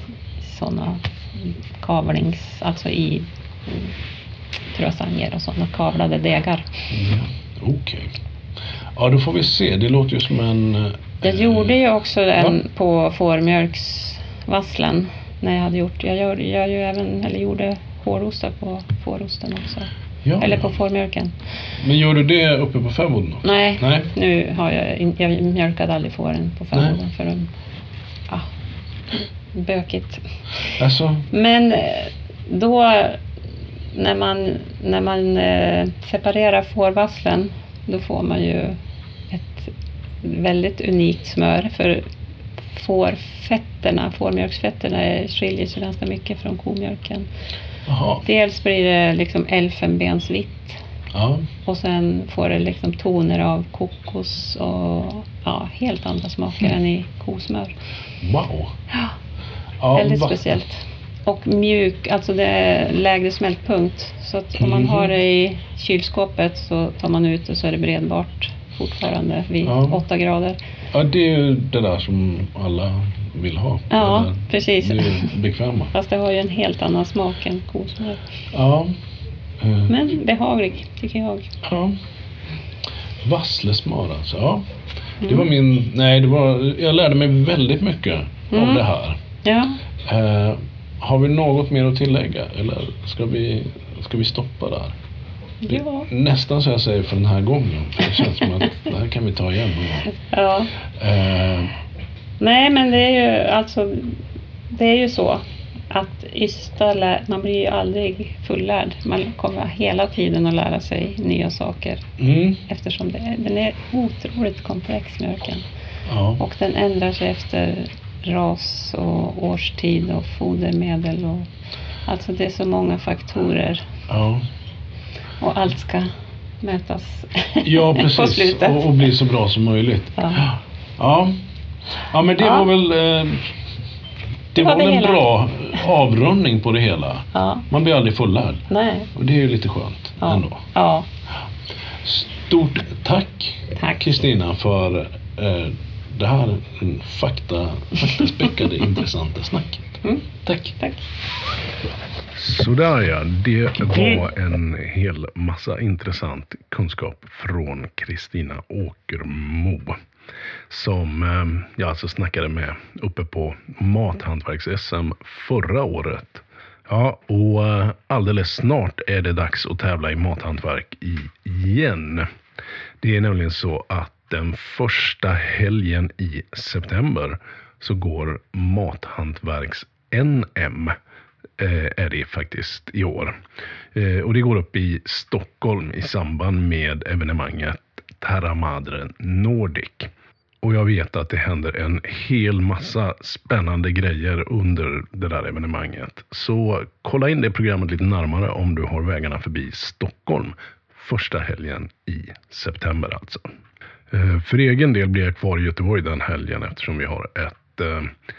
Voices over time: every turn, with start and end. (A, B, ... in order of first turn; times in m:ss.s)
0:00.4-0:03.9 A
0:04.7-0:06.7 A
0:06.9-0:08.2 B
0:09.0-0:11.8 B
0:11.2-0:21.3 A
0:20.2-0:20.8 B
0:21.8-0:24.1 B
0:23.4-0:27.5 A
0:29.1-0:30.7 A
0:30.7-0:31.3 B
0:31.3-0:33.2 A
0:33.9-0:38.8 A
0:39.3-0:42.0 A
0:42.6-0:47.3 A
0:47.9-0:48.2 B
0:48.2-0:50.8 A
0:51.1-0:51.5 B
0:51.6-0:57.8 A
0:58.2-0:58.7 B
0:58.9-0:59.2 A
0:59.8-1:00.4 B
0:59.9-1:10.6 A
1:04.6-1:05.1 B
1:09.6-1:10.0 B
1:10.9-1:15.9 B
1:13.9-1:15.3 A
1:15.9-1:18.2 A
1:18.5-1:19.0 B
1:19.6-1:19.9 B
1:19.9-1:21.5 A
1:21.6-1:22.0 B
1:23.2-1:24.6 B
1:25.2-1:29.2 B
1:28.5-1:28.8 A
1:29.4-1:29.8 A
1:30.1-1:35.0 B
1:35.6-1:36.1 A
1:35.7-1:40.1 B
1:40.2-1:40.7 A
1:41.0-1:41.7 B
1:42.4-1:44.2 A
1:44.7-1:52.1 A
1:52.2-1:52.6 B
1:52.6-1:55.6 A
1:56.1-1:56.4 B
1:56.4-2:01.5 A
2:02.1-2:03.8 A
2:04.1-2:04.4 B
2:05.4-2:06.1 A
2:06.6-2:09.1 A
2:07.6-2:11.4 B
2:10.2-2:10.4 A
2:12.0-2:13.5 B
2:12.4-2:12.7 A
2:14.5-2:20.6 B
2:14.6-2:15.2 A
2:17.3-2:17.7 A
2:18.7-2:19.1 A
2:20.2-2:21.1 A
2:22.0-2:30.8 B
2:23.8-2:24.1 A
2:30.8-2:31.0 A
2:32.4-2:40.0 B
2:40.7-2:52.3 B
2:53.0-3:01.0 B
3:01.6-3:03.4 B
3:03.9-3:10.1 B
3:10.6-3:23.5 B
3:24.1-3:28.1 B